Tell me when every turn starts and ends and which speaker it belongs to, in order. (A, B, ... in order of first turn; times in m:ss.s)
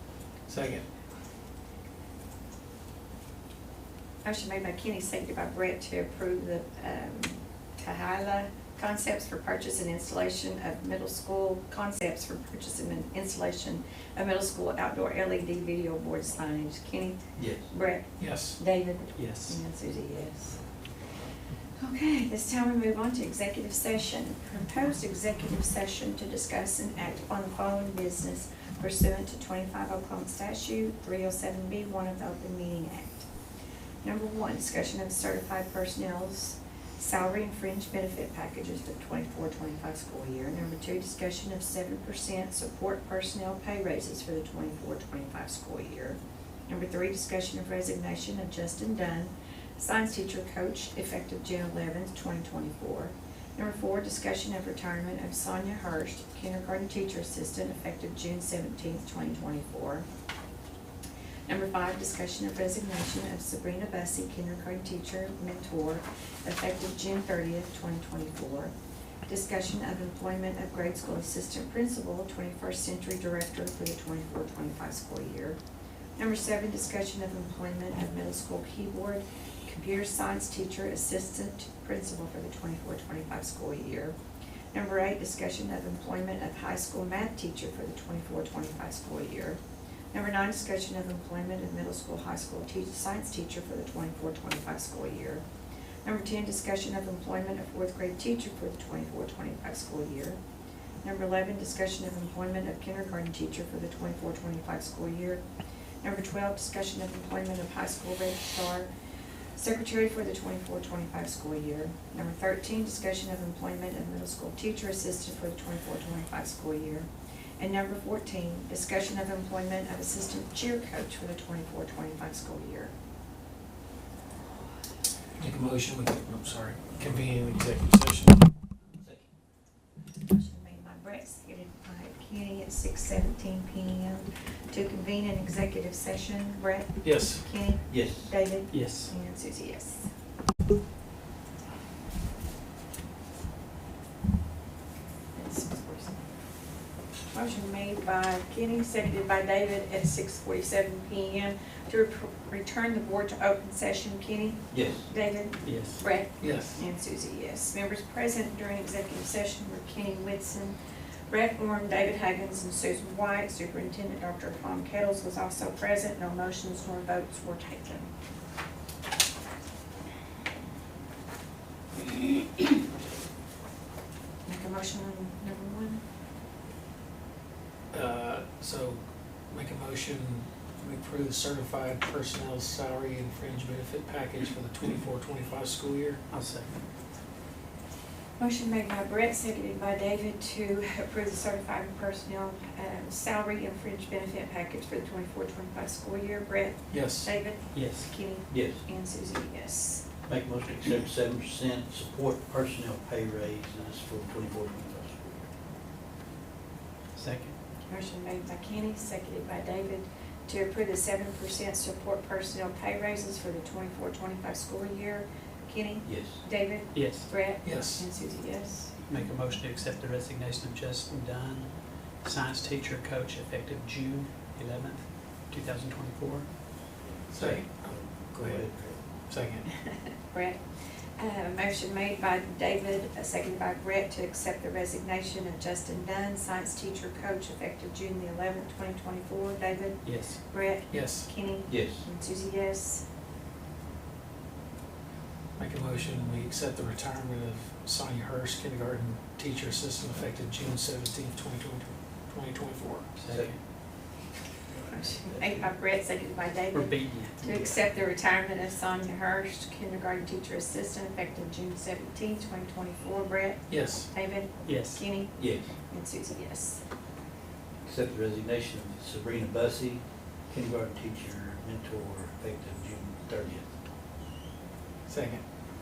0:00.5-0:00.8 A
0:04.2-0:20.6 B
0:17.4-0:17.7 C
0:18.2-0:18.6 A
0:19.1-0:19.6 D
0:21.8-0:33.3 B
0:34.0-1:00.0 B
1:01.5-1:08.7 B
1:09.3-1:15.6 B
1:16.2-1:24.2 B
1:24.7-1:29.6 B
1:30.1-1:35.4 B
1:36.0-1:40.4 B
1:41.0-1:45.4 B
1:46.0-1:48.9 B
1:49.6-1:57.1 B
1:57.6-2:02.9 B
2:05.4-2:08.4 A
2:09.0-2:09.2 C
2:10.2-2:20.1 B
2:17.0-2:17.4 A
2:17.9-2:18.3 C
2:18.7-2:19.1 D
2:25.3-2:26.2 B
2:27.3-2:40.8 B
2:34.7-2:35.1 C
2:35.6-2:36.0 D
2:36.4-2:36.8 A
2:41.3-2:48.1 B
2:54.5-2:56.0 B
2:57.9-3:06.2 A
3:06.3-3:06.8 D
3:08.4-3:20.0 B
3:16.9-3:17.3 A
3:17.7-3:18.1 D
3:18.5-3:18.8 C
3:20.2-3:25.5 C
3:27.1-3:27.5 D
3:27.9-3:39.2 B
3:36.0-3:36.4 C
3:36.9-3:37.4 D
3:37.6-3:38.1 A
3:39.1-3:46.5 D
3:47.3-3:48.6 A
3:47.3-3:49.0 C
3:49.3-3:49.7 A
3:49.9-3:50.6 B
3:51.2-4:03.0 B
4:00.0-4:00.4 D
4:00.9-4:01.3 A
4:01.7-4:02.1 C
4:05.6-4:13.1 A
4:13.2-4:13.6 D
4:13.3-4:13.6 C
4:14.7-4:15.6 C
4:14.9-4:26.8 B
4:16.7-4:17.8 D
4:23.7-4:24.1 A
4:24.6-4:25.0 D
4:25.4-4:25.7 C
4:27.8-4:33.7 C
4:35.1-4:35.4 A